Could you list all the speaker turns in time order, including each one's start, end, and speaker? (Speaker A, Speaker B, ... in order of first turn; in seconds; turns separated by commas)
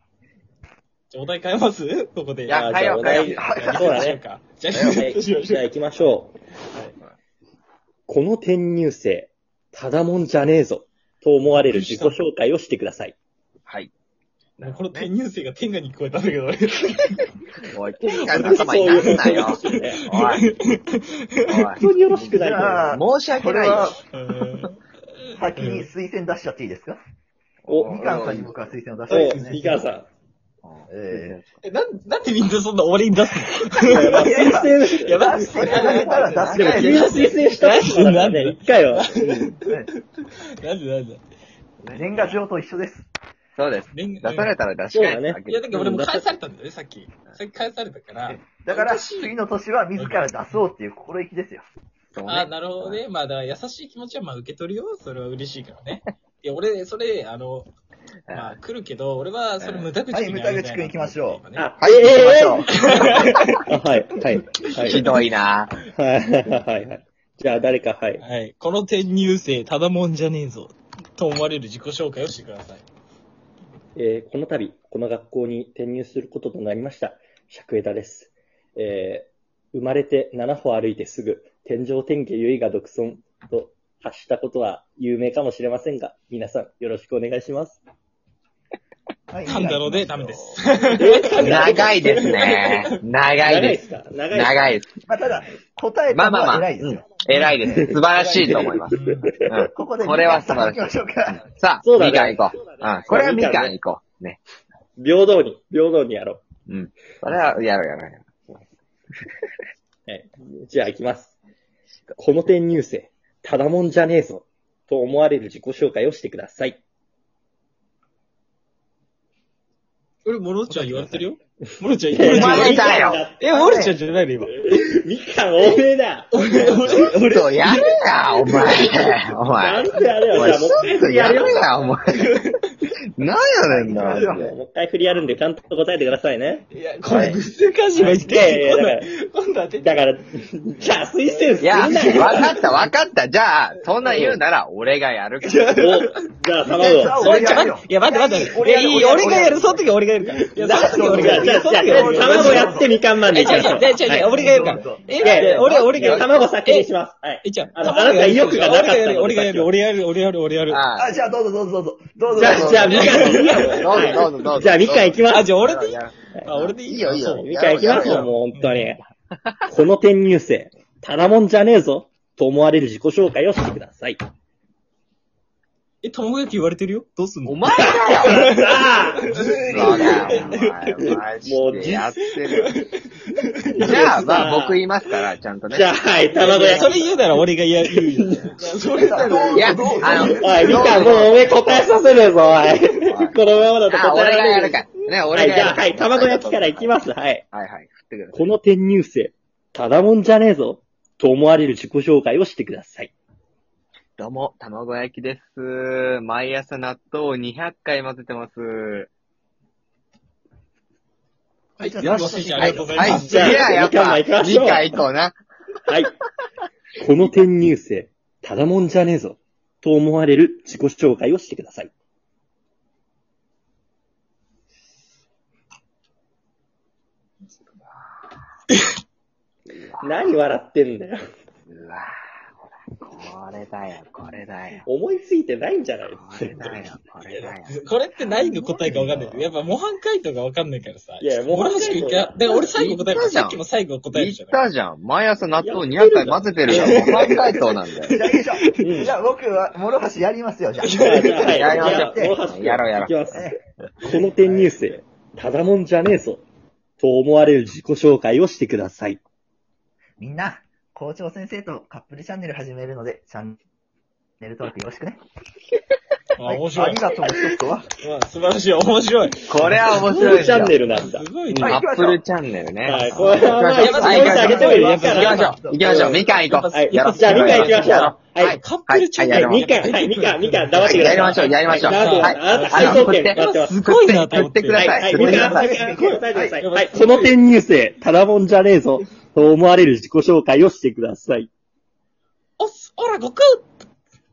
Speaker A: 1.1-5.7, Speaker B: 2.5-4.1, Speaker C: 2.5-4.2, Speaker D: 3.3-4.2, Speaker B: 4.7-5.0, Speaker C: 4.9-6.3, Speaker C: 8.1-13.2, Speaker A: 11.5-12.2, Speaker B: 13.7-13.9, Speaker B: 14.6-15.1, Speaker A: 14.6-17.3, Speaker B: 17.7-20.4, Speaker A: 18.1-21.7, Speaker C: 18.3-20.0, Speaker B: 21.4-22.3, Speaker C: 21.8-23.0, Speaker D: 22.1-24.0, Speaker B: 22.9-24.0, Speaker A: 24.1-24.8, Speaker D: 25.3-27.0, Speaker A: 25.5-25.9, Speaker B: 27.7-28.6, Speaker C: 27.7-28.3, Speaker D: 27.9-29.9, Speaker A: 29.1-29.6, Speaker C: 29.1-30.1, Speaker B: 30.6-31.6, Speaker D: 30.9-31.4, Speaker A: 31.6-41.2, Speaker C: 33.8-39.5, Speaker D: 33.9-37.1, Speaker B: 35.9-36.9, Speaker B: 41.8-42.1, Speaker D: 41.9-43.1, Speaker B: 43.5-45.7, Speaker A: 43.9-44.6, Speaker C: 44.9-46.3, Speaker A: 45.5-49.4, Speaker D: 48.3-51.6, Speaker A: 50.0-50.4, Speaker B: 52.1-53.0, Speaker A: 52.2-57.7, Speaker B: 58.3-58.6, Speaker A: 58.3-61.6, Speaker B: 59.6-59.9, Speaker D: 60.1-61.4, Speaker C: 61.5-62.8, Speaker B: 61.8-63.5, Speaker D: 62.1-62.5, Speaker A: 62.9-63.6, Speaker C: 63.6-65.1, Speaker B: 64.8-65.7, Speaker A: 64.8-65.2, Speaker C: 65.9-68.2, Speaker A: 68.2-72.8, Speaker C: 73.9-87.8, Speaker D: 89.3-90.6, Speaker A: 89.5-92.9, Speaker C: 90.9-92.2, Speaker B: 91.3-95.6, Speaker C: 93.4-94.8, Speaker D: 95.1-97.1, Speaker B: 96.1-104.4, Speaker D: 97.6-97.9, Speaker C: 98.4-99.4, Speaker A: 98.9-99.3, Speaker D: 99.7-101.4, Speaker C: 101.8-103.8, Speaker C: 105.0-106.4, Speaker B: 106.7-108.6, Speaker C: 110.1-111.3, Speaker C: 112.2-116.8, Speaker A: 120.2-124.6, Speaker B: 120.7-121.2, Speaker C: 122.1-127.0, Speaker B: 122.2-123.2, Speaker A: 126.3-129.2, Speaker B: 126.7-132.4, Speaker C: 129.6-131.7, Speaker A: 130.1-130.6, Speaker A: 131.3-132.7, Speaker B: 133.2-134.5, Speaker C: 133.7-136.7, Speaker D: 133.8-134.4, Speaker A: 136.7-140.0, Speaker B: 137.0-137.4, Speaker C: 138.0-139.1, Speaker C: 139.8-142.6, Speaker A: 141.3-142.7, Speaker B: 141.6-146.0, Speaker A: 145.4-146.2, Speaker C: 145.8-147.4, Speaker D: 146.6-149.9, Speaker A: 146.7-156.9, Speaker D: 150.5-155.1, Speaker C: 150.7-154.5, Speaker B: 155.2-156.5, Speaker C: 155.2-159.7, Speaker A: 157.4-160.8, Speaker B: 160.7-161.1, Speaker D: 160.9-163.4, Speaker C: 162.3-165.5, Speaker B: 162.4-168.3, Speaker A: 162.8-164.2, Speaker A: 165.3-168.9, Speaker C: 167.3-169.0, Speaker C: 169.7-174.2, Speaker A: 176.0-181.2, Speaker B: 177.4-178.4, Speaker C: 177.7-182.2, Speaker B: 179.7-182.8, Speaker A: 182.5-184.1, Speaker C: 183.8-184.8, Speaker B: 183.8-185.9, Speaker C: 185.7-188.5, Speaker A: 186.3-191.0, Speaker B: 186.7-187.0, Speaker D: 188.9-191.1, Speaker B: 189.5-192.0, Speaker C: 190.4-197.4, Speaker B: 192.9-197.0, Speaker B: 197.5-198.5, Speaker C: 198.3-203.1, Speaker B: 204.2-209.1, Speaker D: 211.8-213.2, Speaker A: 211.8-213.7, Speaker B: 212.0-215.4, Speaker C: 213.1-215.0, Speaker C: 215.9-216.2, Speaker C: 217.0-221.9, Speaker B: 229.7-230.0, Speaker C: 230.0-231.2, Speaker B: 231.7-232.1, Speaker B: 232.8-234.8, Speaker C: 234.9-236.9, Speaker B: 236.1-237.8, Speaker A: 237.2-244.6, Speaker C: 238.5-239.3, Speaker C: 241.2-242.7, Speaker B: 242.6-243.6, Speaker B: 244.1-248.2, Speaker C: 245.6-247.3, Speaker A: 246.6-248.9, Speaker D: 248.1-252.4, Speaker C: 248.8-249.1, Speaker A: 250.8-251.6, Speaker C: 251.0-256.4, Speaker B: 251.4-253.3, Speaker D: 253.3-253.6, Speaker D: 254.1-255.0, Speaker C: 257.0-259.2, Speaker D: 260.2-263.6, Speaker D: 264.4-265.2, Speaker A: 266.4-271.9, Speaker D: 266.4-267.9, Speaker B: 269.4-270.8, Speaker C: 270.2-271.3, Speaker B: 271.5-279.7, Speaker D: 271.6-272.2, Speaker C: 272.8-276.2, Speaker A: 273.1-285.4, Speaker D: 274.1-276.1, Speaker C: 276.7-278.6, Speaker C: 279.3-283.8, Speaker B: 280.8-285.9, Speaker C: 284.7-291.5, Speaker D: 285.1-286.6, Speaker A: 286.4-287.4, Speaker A: 292.6-293.7